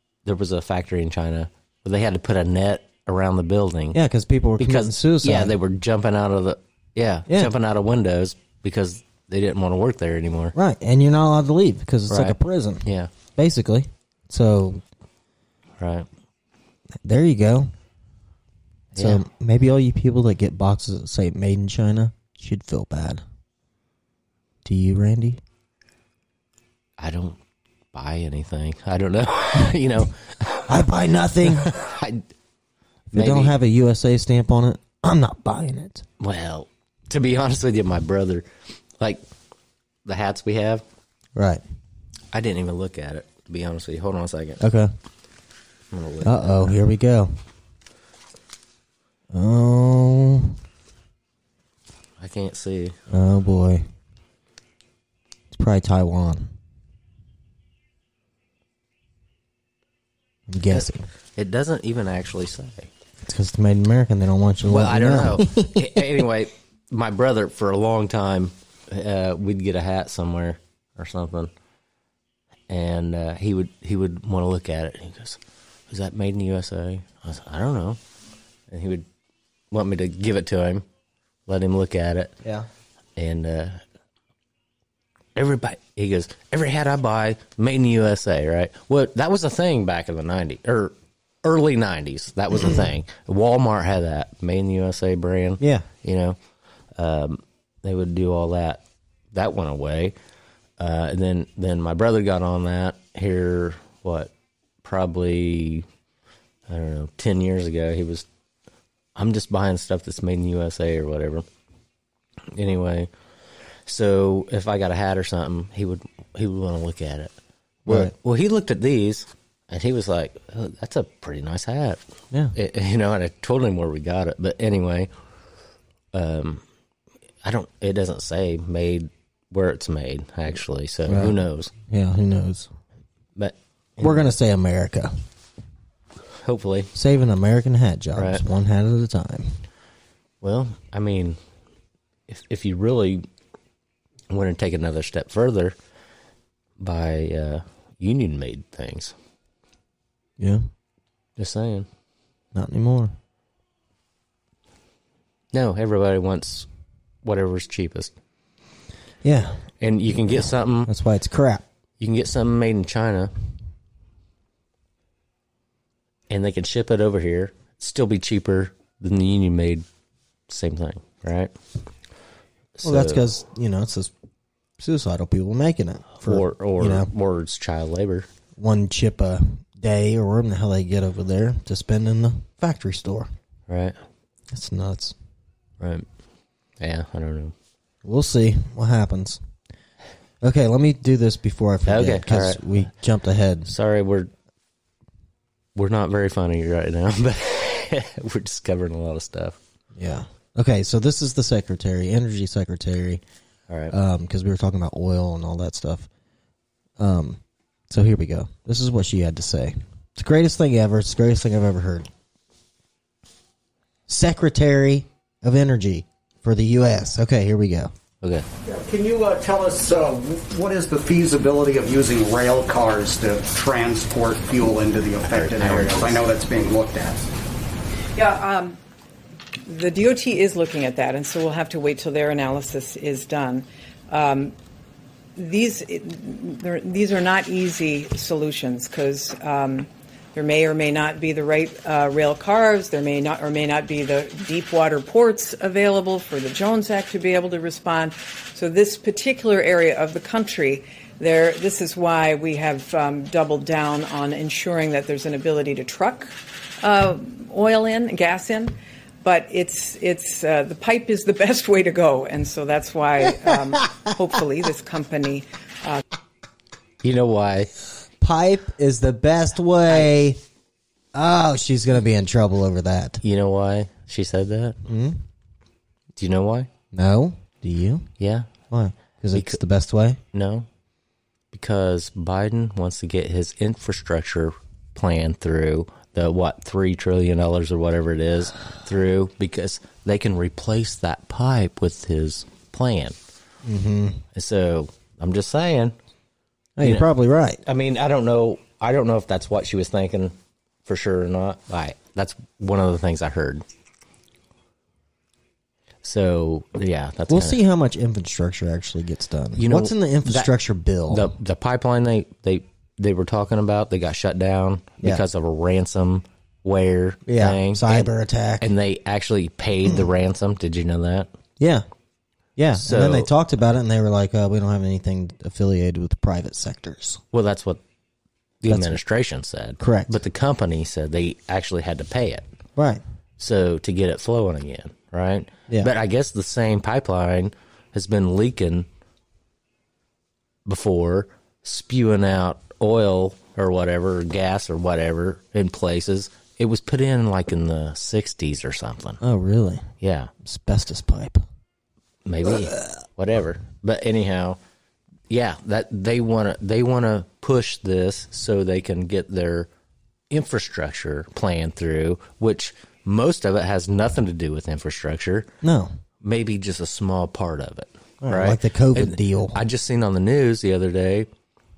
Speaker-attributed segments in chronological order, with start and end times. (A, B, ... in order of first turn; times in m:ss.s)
0:00.2-0:04.0 A
0:03.9-0:05.5 B
0:04.6-0:10.5 A
0:07.3-0:07.5 B
0:10.5-0:14.8 B
0:12.1-0:13.1 A
0:15.8-0:16.1 A
0:17.0-0:17.7 B
0:18.9-0:23.2 B
0:18.9-0:19.2 A
0:24.6-0:25.4 B
0:27.0-0:27.4 A
0:27.9-0:30.9 A
0:30.7-0:31.7 B
0:31.4-0:32.2 A
0:33.1-0:36.0 B
0:33.1-0:33.6 A
0:36.2-0:38.5 A
0:40.0-0:40.8 A
0:41.3-0:41.6 B
0:42.3-0:44.6 A
0:44.6-0:44.9 B
0:45.9-0:46.7 A
0:46.2-0:47.3 B
0:49.3-0:50.6 B
0:52.2-0:53.0 A
0:53.1-0:53.8 B
0:55.5-0:56.5 B
1:00.5-1:01.1 B
1:00.7-1:02.9 A
1:03.2-1:06.0 B
1:04.6-1:11.5 A
1:12.7-1:15.4 A
1:15.9-1:18.0 A
1:18.7-1:19.0 A
1:19.7-1:20.8 A
1:21.5-1:22.3 A
1:23.2-1:23.8 A
1:25.3-1:36.4 A
1:35.6-1:35.8 B
1:37.0-1:38.8 A
1:39.3-1:40.1 A
1:40.8-1:44.3 A
1:44.8-1:45.8 A
1:46.7-1:48.2 A
1:49.2-1:51.4 A
1:52.5-1:53.1 A
1:53.8-1:57.3 A
1:57.8-1:58.1 B
1:57.8-2:02.0 A
2:02.5-2:05.1 A
2:06.1-2:06.6 A
2:07.4-2:11.7 A
2:11.1-2:11.4 B
2:11.9-2:12.7 B
2:13.4-2:14.2 A
2:14.0-2:15.2 B
2:16.4-2:16.9 A
2:16.9-2:19.6 B
2:18.2-2:18.4 A
2:20.4-2:21.4 A
2:22.3-2:23.2 A
2:24.3-2:25.8 A
2:26.8-2:29.1 A
2:30.4-2:30.7 B
2:31.4-2:31.9 A
2:32.5-2:33.1 B
2:35.5-2:36.7 A
2:37.2-2:38.1 A
2:39.2-2:39.6 B
2:39.8-2:40.9 A
2:40.3-2:41.6 B
2:42.0-2:43.3 A
2:46.3-2:49.8 A
2:50.5-2:51.5 A
2:52.8-2:53.2 A
2:52.8-2:54.1 B
2:54.8-2:57.1 B
2:56.2-2:58.3 A
2:58.6-3:03.3 B
3:03.7-3:04.0 A
3:04.5-3:05.1 B
3:05.8-3:06.0 A
3:06.8-3:07.5 A
3:08.0-3:09.4 B
3:10.4-3:13.7 B
3:11.8-3:12.8 A
3:13.6-3:14.3 A
3:15.7-3:19.6 A
3:19.9-3:23.2 B
3:23.7-3:23.9 A
3:23.9-3:26.1 B
3:27.0-3:27.4 B
3:27.9-3:32.1 B
3:34.1-3:37.9 B
3:38.2-3:38.5 A
3:38.6-3:47.3 C
3:45.2-3:46.2 A
3:48.2-3:48.8 D
3:49.6-3:54.6 D
3:55.4-4:26.0 D
4:27.0-4:27.7 A
4:28.2-4:30.4 B
4:31.1-4:33.2 B
4:33.2-4:34.8 A
4:34.8-4:35.2 B
4:36.2-4:36.7 A
4:36.9-4:38.1 B
4:38.2-4:38.5 A
4:38.7-4:40.2 B
4:39.3-4:39.6 A
4:40.3-4:40.7 A
4:41.5-4:53.2 A
4:53.6-4:54.2 B
4:54.3-4:55.9 A
4:56.8-4:57.6 B
4:56.8-4:57.1 A
4:57.6-5:03.6 A
5:06.0-5:07.6 A
5:07.3-5:11.3 B
5:09.6-5:10.5 A
5:11.1-5:18.1 A
5:17.2-5:18.7 B
5:18.6-5:21.3 A
5:21.6-5:21.8 B
5:22.6-5:27.2 B
5:22.8-5:23.3 A
5:27.3-5:27.8 A
5:28.6-5:32.4 A
5:28.7-5:29.0 B
5:29.8-5:30.2 B
5:32.8-5:33.0 B
5:33.4-5:38.9 A
5:40.6-5:49.2 A
5:49.2-5:49.9 B
5:50.0-5:50.3 A
5:50.4-5:51.4 B
5:52.2-5:54.6 A
5:55.3-5:59.7 A
6:00.3-6:05.5 A
6:05.6-6:05.9 B
6:06.2-6:11.3 A
6:08.2-6:09.6 B